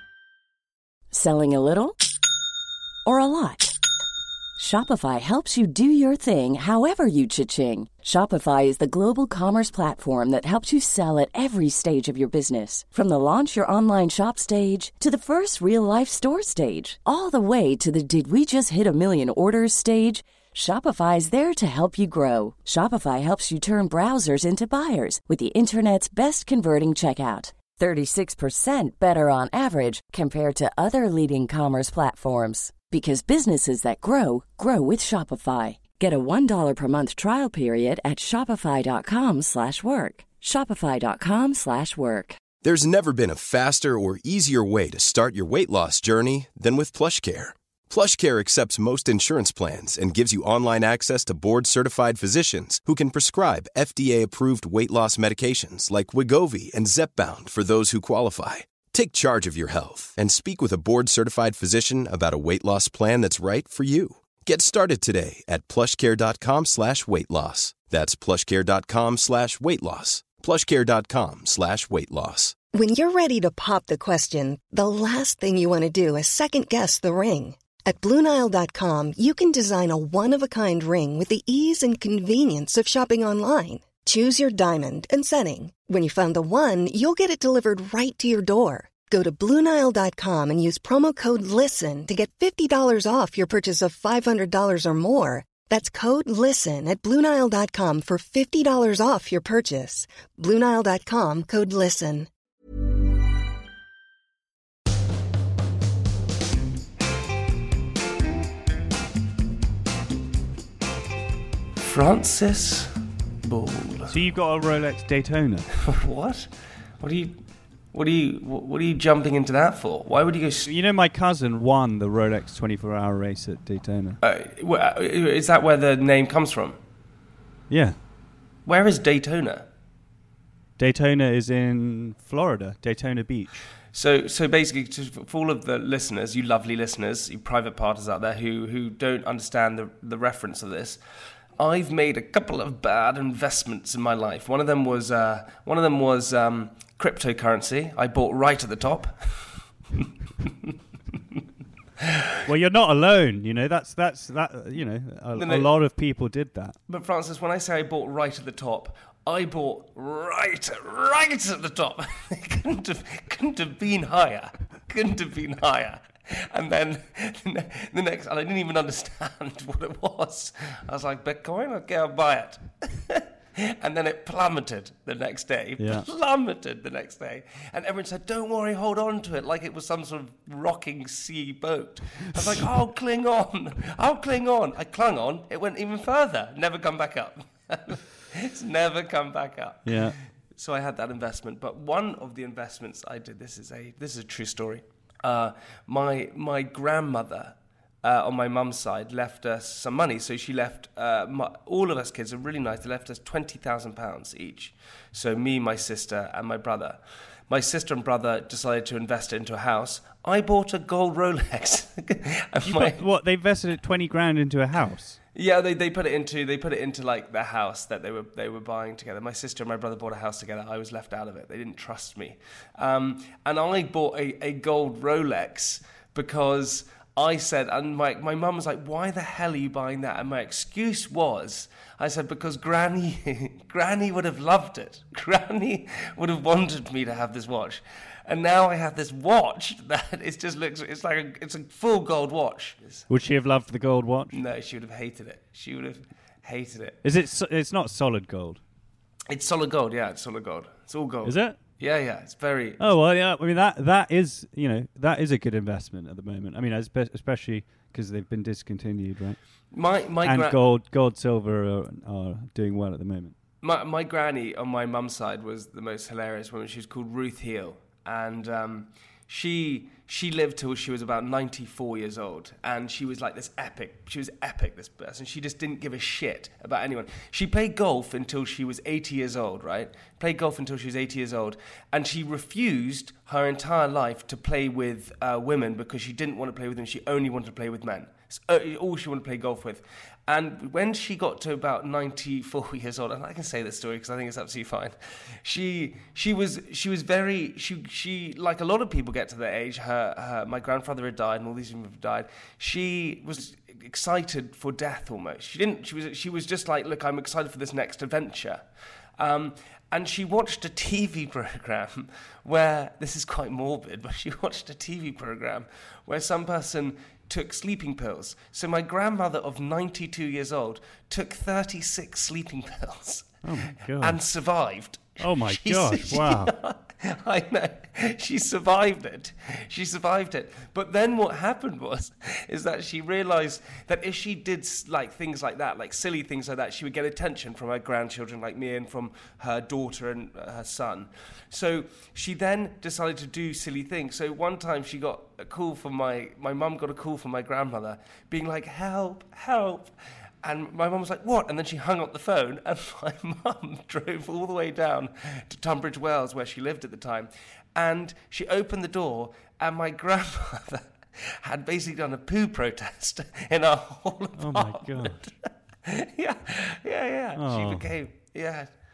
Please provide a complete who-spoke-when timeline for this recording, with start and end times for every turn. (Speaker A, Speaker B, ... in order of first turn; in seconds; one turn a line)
Speaker A: 1.1-2.0
Speaker A: 3.0-3.8
Speaker A: 4.6-42.4
Speaker B: 42.6-72.5
Speaker C: 72.7-102.3
Speaker D: 111.8-114.1
Speaker E: 114.1-115.7
Speaker D: 115.9-117.4
Speaker D: 117.9-120.7
Speaker E: 120.7-124.2
Speaker D: 124.2-126.8
Speaker E: 127.7-128.0
Speaker D: 128.7-129.7
Speaker E: 130.8-133.7
Speaker D: 133.9-141.0
Speaker D: 141.6-150.7
Speaker E: 152.5-156.8
Speaker D: 155.3-155.7
Speaker D: 156.9-213.0
Speaker E: 175.8-176.1
Speaker E: 189.8-190.2
Speaker E: 212.6-215.2
Speaker D: 215.3-243.1
Speaker E: 243.1-244.4
Speaker D: 244.3-247.0
Speaker E: 247.0-248.6
Speaker D: 249.3-252.8
Speaker E: 251.2-251.6
Speaker E: 252.8-259.4
Speaker D: 259.7-260.6
Speaker E: 260.2-263.4
Speaker D: 263.6-308.6
Speaker D: 309.2-368.7
Speaker E: 323.4-324.2
Speaker E: 325.2-326.5
Speaker E: 364.4-365.2
Speaker E: 367.4-367.9